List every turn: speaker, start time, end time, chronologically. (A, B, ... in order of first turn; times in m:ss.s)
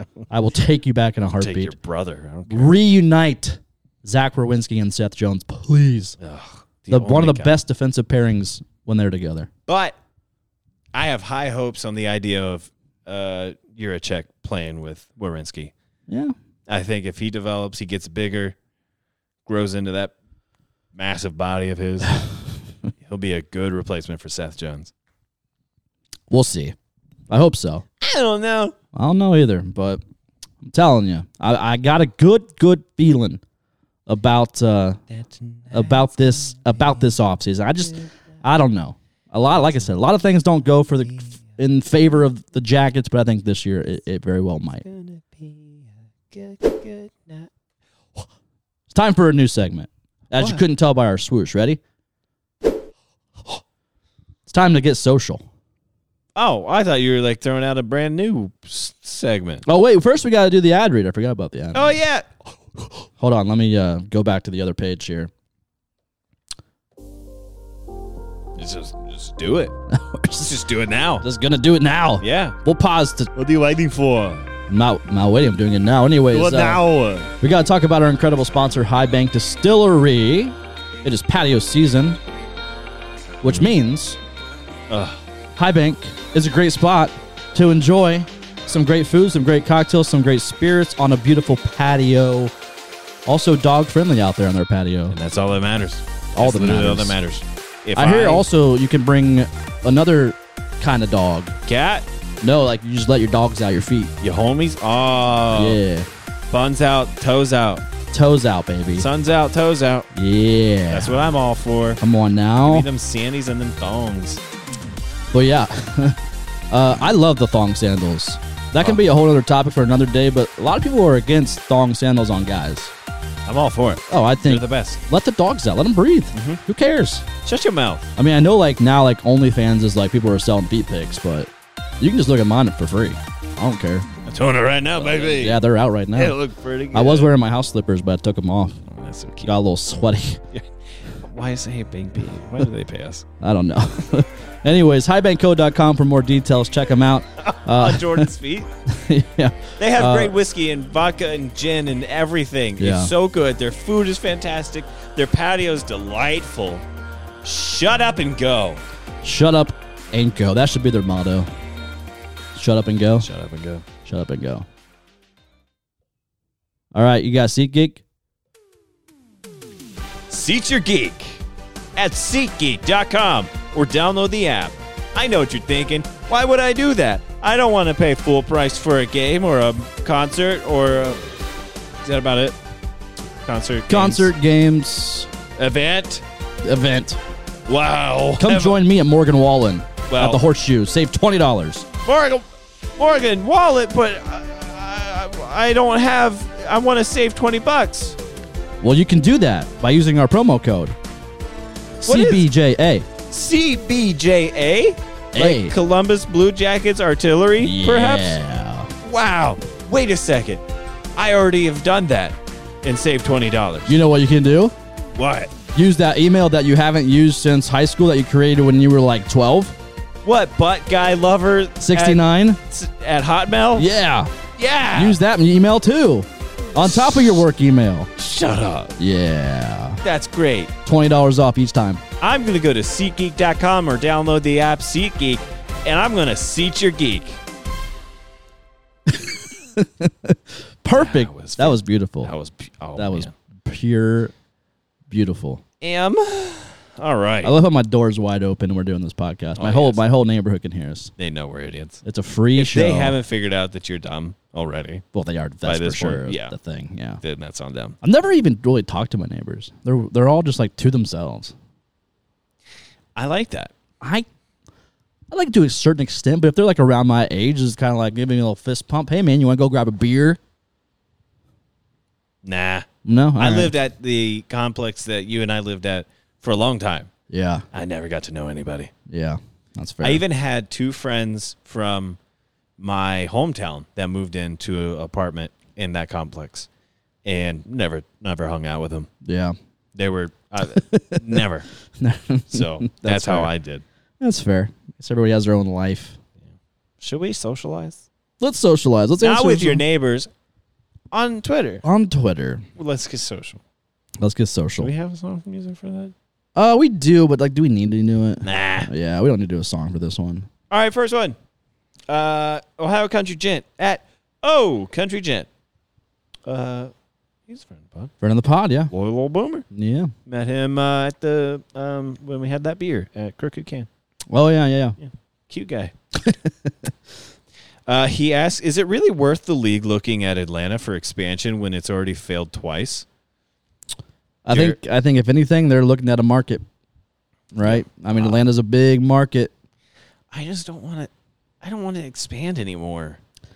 0:00.3-0:01.7 A
0:01.4-0:02.8 B
0:02.5-0:06.2 A
0:06.2-0:07.5 B
0:06.9-0:09.5 A
0:09.7-0:10.0 B
0:10.9-0:15.7 B
0:16.1-0:16.3 A
0:16.7-0:18.6 B
0:19.4-0:20.1 B
0:20.9-0:22.2 B
0:23.0-0:24.9 B
0:26.3-0:26.7 A
0:27.3-0:27.8 A
0:28.0-0:28.7 B
0:28.9-0:30.0 A
0:30.6-0:33.4 A
0:34.1-0:35.0 A
0:35.1-0:36.1 B
0:35.7-0:44.8 A
0:44.8-0:47.5 B
0:48.9-0:51.8 A
0:50.4-0:50.6 B
0:54.5-0:55.4 A
0:56.3-0:59.6 B
0:59.6-1:01.9 A
1:01.7-1:02.3 B
1:03.2-1:05.3 A
1:08.6-1:09.7 B
1:09.9-1:10.5 A
1:10.4-1:11.2 B
1:11.2-1:13.3 A
1:12.2-1:12.6 B
1:13.3-1:14.5 B
1:14.7-1:16.8 A
1:16.3-1:17.3 B
1:17.4-1:22.2 A
1:23.4-1:24.2 A
1:23.4-1:23.7 B
1:24.9-1:25.2 B
1:25.6-1:32.5 A
1:33.2-1:35.2 A
1:35.1-1:38.4 B
1:36.4-1:37.2 A
1:38.0-1:41.6 A
1:41.6-1:42.1 B
1:42.4-1:44.1 A
1:44.2-1:45.8 B
1:45.5-1:46.1 A
1:46.5-1:47.8 B
1:48.1-1:49.1 A
1:48.9-1:50.1 B
1:50.1-1:51.1 A
1:50.9-1:52.0 B
1:52.0-1:52.9 A
1:52.6-1:54.4 B
1:55.3-1:56.2 A
1:56.7-2:02.9 A
2:03.4-2:05.0 B
2:04.1-2:07.2 A
2:06.3-2:06.6 B
2:07.4-2:08.1 B
2:08.2-2:14.1 A
2:14.2-2:15.6 B
2:15.0-2:16.4 A
2:16.1-2:17.3 B
2:16.9-2:18.8 A
2:18.8-2:19.5 B
2:19.4-2:20.4 A
2:20.5-2:23.2 B
2:23.4-2:28.3 A
2:27.4-2:28.7 B
2:28.9-2:30.4 A
2:29.8-2:36.8 B
2:32.8-2:33.1 A
2:37.4-2:38.8 B
2:39.2-2:41.5 A
2:42.5-2:43.3 A
2:43.2-2:43.8 B
2:44.0-2:44.6 A
2:46.9-2:48.0 A
2:50.3-2:51.4 B
2:52.0-3:01.2 B
3:02.0-3:02.6 B
3:03.4-3:04.3 B
3:03.9-3:05.3 A
3:05.6-3:06.2 B
3:06.6-3:07.2 A
3:07.7-3:08.8 B
3:08.4-3:11.9 A
3:10.1-3:10.4 B
3:12.0-3:18.2 B
3:18.8-3:21.0 A
3:22.0-3:23.1 A
3:22.0-3:22.5 B
3:23.3-3:28.4 B
3:25.3-3:25.7 A
3:27.6-3:28.9 A
3:29.0-3:30.6 B
3:31.2-3:34.0 B
3:33.9-3:34.7 A
3:35.2-3:35.5 B
3:35.7-3:39.8 A
3:40.2-3:43.9 B
3:41.8-3:42.6 A
3:43.8-3:44.3 A
3:44.6-3:45.2 B
3:44.9-3:48.1 A
3:46.8-3:47.4 B
3:48.2-3:48.9 B
3:49.0-3:50.0 A
3:50.0-3:50.7 B
3:50.8-3:52.0 A
3:52.2-3:57.4 B
3:59.1-4:02.3 A
4:00.9-4:03.3 B
4:03.0-4:04.3 A
4:05.1-4:05.6 A
4:05.8-4:07.5 B
4:07.4-4:11.1 A
4:09.6-4:10.0 B
4:11.2-4:12.0 B
4:12.0-4:13.2 A
4:12.5-4:15.0 B
4:15.1-4:17.2 A
4:15.6-4:16.5 B
4:17.2-4:18.0 B
4:18.0-4:21.5 A
4:23.1-4:23.7 B
4:24.0-4:24.2 A
4:25.3-4:30.4 A
4:32.4-4:37.1 B
4:33.0-4:33.7 A
4:37.3-4:37.6 A
4:37.7-4:38.9 B
4:39.1-4:40.2 A
4:40.0-4:42.2 B
4:42.8-4:46.7 B
4:47.2-4:49.1 B
4:49.2-4:49.5 A
4:49.9-4:51.7 B
4:50.8-4:51.4 A
4:52.0-4:53.5 A
4:52.5-4:53.8 B
4:54.2-4:56.2 A
4:57.0-4:58.0 B
4:58.4-4:59.8 A
4:59.2-5:00.3 B
5:01.1-5:01.8 B
5:01.8-5:02.6 A
5:02.8-5:03.6 B
5:04.2-5:04.9 A
5:04.8-5:06.1 B
5:06.6-5:10.5 A
5:08.4-5:08.9 B
5:10.7-5:11.4 B
5:12.1-5:15.5 B
5:16.4-5:16.9 B
5:17.5-5:18.1 B
5:18.2-5:18.9 A
5:18.9-5:19.6 B
5:19.7-5:20.1 A
5:20.2-5:23.9 B
5:24.3-5:25.0 A
5:25.0-5:25.9 B
5:26.2-5:26.9 A
5:27.8-5:33.0 B
5:34.4-5:36.6 A
5:34.5-5:34.8 B
5:37.5-5:39.5 A
5:37.6-5:38.4 B
5:40.3-5:41.1 B
5:41.6-5:43.2 B